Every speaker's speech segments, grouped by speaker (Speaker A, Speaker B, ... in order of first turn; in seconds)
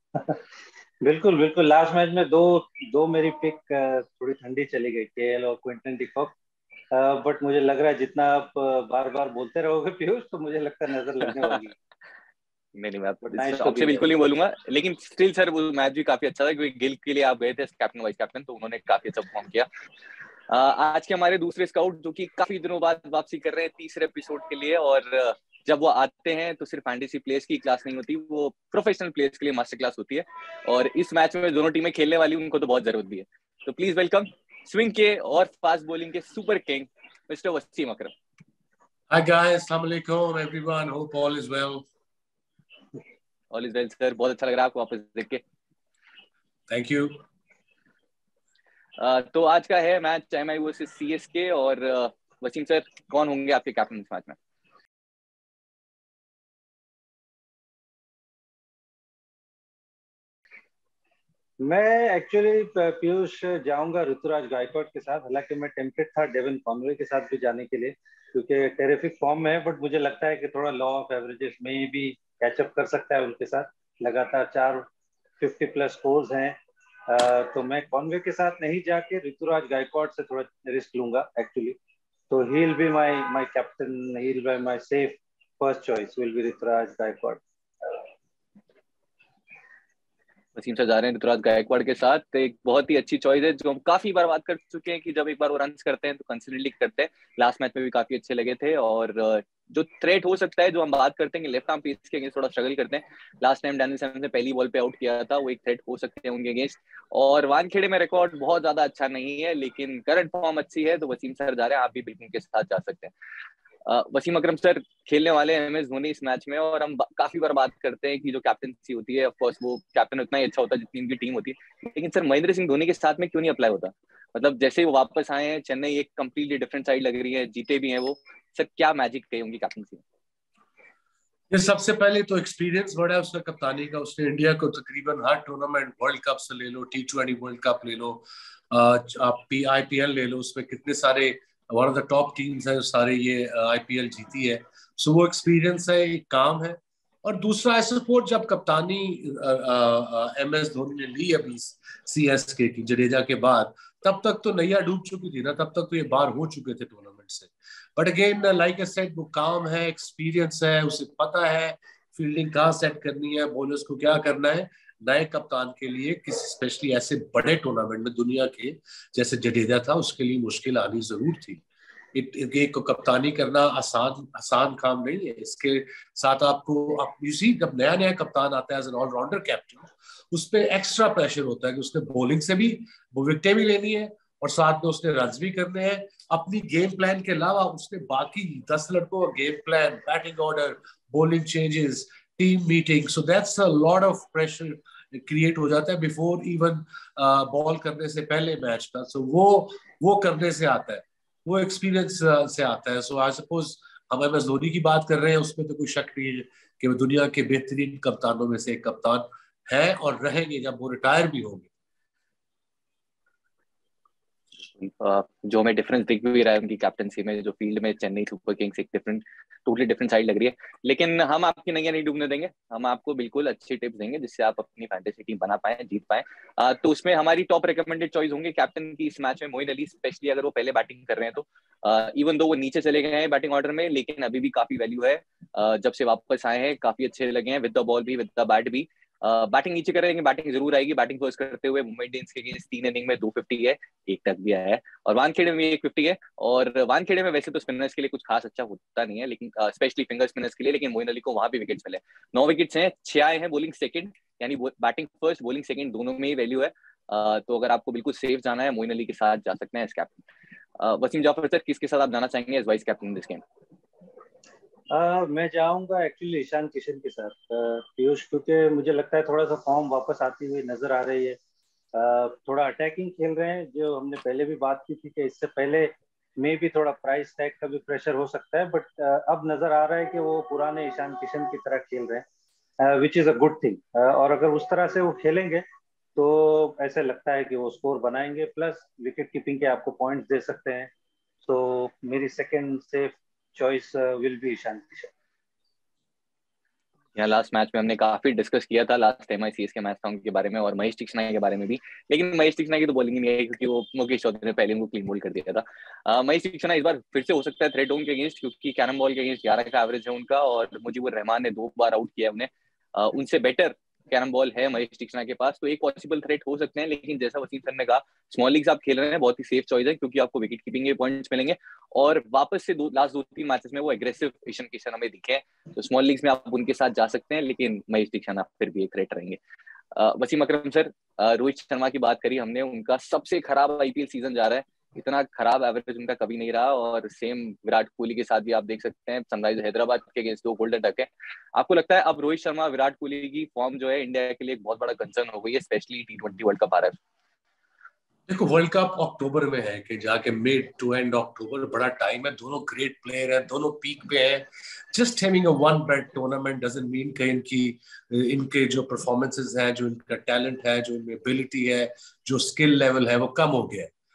Speaker A: 1.0-6.3, 6.9-11.7, 13.3-14.2, 61.6-74.9, 75.4-81.8, 82.3-87.4, 264.9-271.4, 271.9-282.2, 282.8-285.6, 286.1-290.9, 291.4-295.1
Speaker B: 12.8-19.7, 20.5-38.1, 43.5-45.4, 49.0-54.4, 90.5-113.1, 113.8-130.0, 214.7-260.2, 260.8-263.4, 297.1-329.4, 329.9-347.0
Speaker C: 39.1-41.9, 46.7-47.2, 131.5-171.6, 172.1-211.7, 348.3-363.9